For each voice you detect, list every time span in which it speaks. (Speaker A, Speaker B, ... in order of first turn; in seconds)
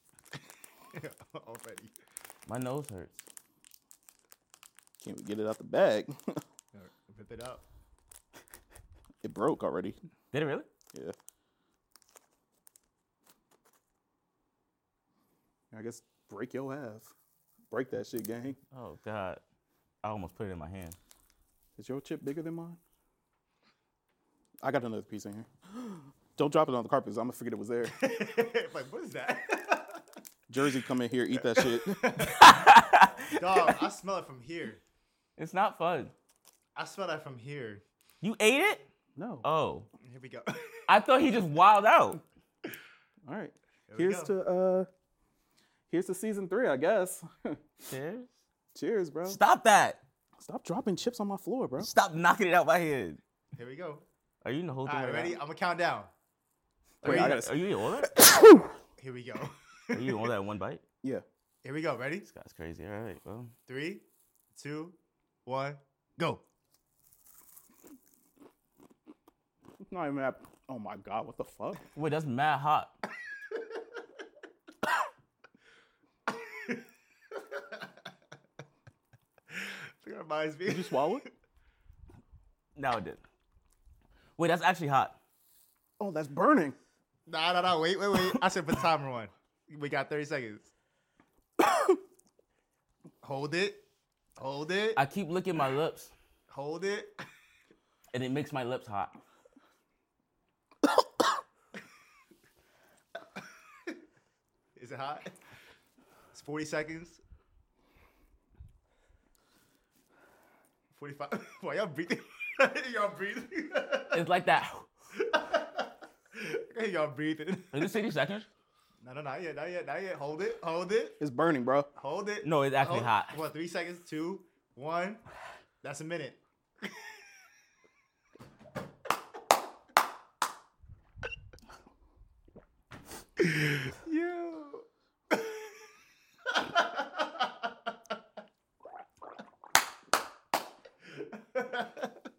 Speaker A: 0.9-1.9, 6.7-7.6, 27.9-30.0, 31.5-32.4, 33.3-34.8, 36.8-37.8, 40.0-40.9, 43.9-44.3, 53.5-54.0, 54.9-56.1, 57.0-57.4, 59.0-60.3, 61.6-62.3, 63.7-66.4, 76.3-78.1, 79.5-81.3, 87.3-90.7, 93.2-93.8, 94.4-95.0, 96.5-97.2, 104.8-105.3, 106.3-107.2, 110.9-114.3, 115.1-117.9, 119.0-121.2, 122.0-125.2, 125.8-127.2, 133.4-135.7, 136.5-137.5, 141.3-142.2
Speaker B: 2.5-3.2, 10.3-10.7, 18.7-19.4, 20.0-21.0, 32.3-33.7, 35.4-36.1, 38.2-38.9, 39.4-39.9, 40.9-42.2, 47.9-48.3, 49.3-50.0, 51.8-53.2, 54.4-55.4, 57.0-58.1, 59.9-60.8, 62.3-63.5, 72.0-72.9, 82.8-83.2, 84.4-85.2, 95.0-96.1, 98.1-99.2, 114.1-114.9, 117.7-118.5, 122.4-123.4
Speaker C: 5.0-6.4, 9.2-10.0, 15.7-17.1, 17.7-18.6, 21.8-22.8, 24.6-28.0, 30.5-32.0, 39.2-39.5, 43.2-44.9, 45.9-47.6, 48.7-49.4, 50.4-51.9, 57.0-58.7, 69.8-71.8, 80.7-81.2, 86.0-86.8, 121.2-121.9